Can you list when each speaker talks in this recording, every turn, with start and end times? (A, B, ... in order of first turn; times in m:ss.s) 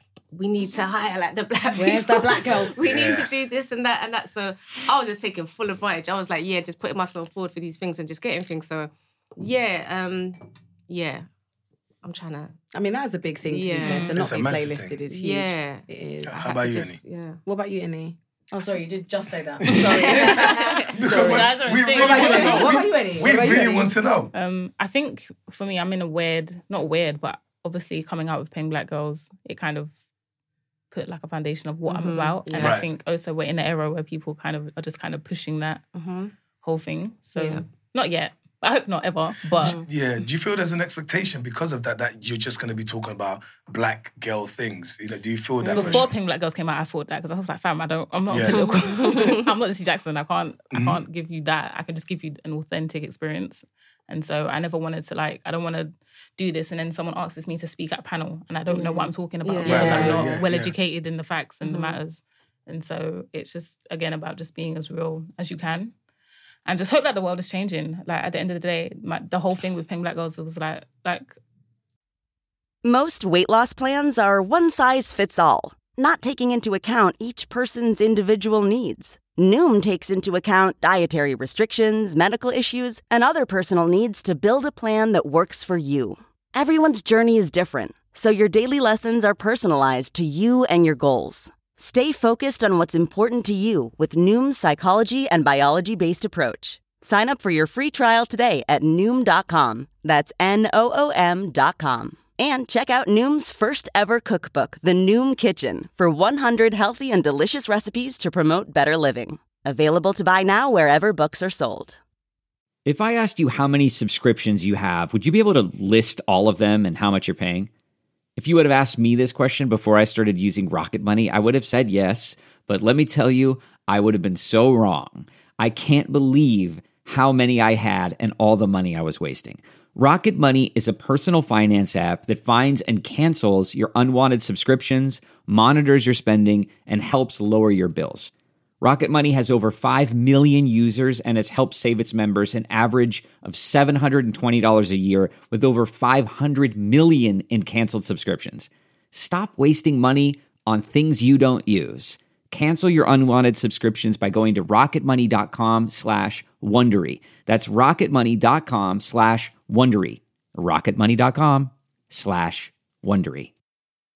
0:00.3-0:11.2 A
0:01.7-0:02.7 B
0:02.8-0:03.3 C
0:12.0-0:12.6 A
0:12.7-0:16.5 B
0:13.4-0:14.2 A
0:13.8-0:14.1 D
0:14.1-0:15.0 C
0:15.1-0:15.8 A
0:16.2-0:17.0 C
0:16.4-0:17.4 A
0:17.4-0:23.9 B
0:19.6-0:24.3 C
0:20.0-0:20.9 A
0:21.1-0:22.8 D
0:24.3-0:29.9 D
0:30.9-0:35.8 D
0:31.9-0:32.4 A
0:32.4-0:32.8 B
0:32.6-0:32.9 C
0:35.9-0:36.3 A
0:36.6-0:39.8 D
0:37.4-0:37.6 A
0:39.6-0:46.1 C
0:45.6-0:46.0 A
0:45.7-1:05.9 D
0:48.3-0:48.7 C
0:48.5-0:49.4 A
0:50.7-0:51.0 C
0:58.7-1:00.3 A
0:59.6-1:00.3 B
0:59.6-1:00.7 C
1:01.6-1:02.0 A
1:06.6-1:11.4 D
1:12.8-1:52.0 E
1:52.8-1:57.7 F
1:58.4-2:43.5 F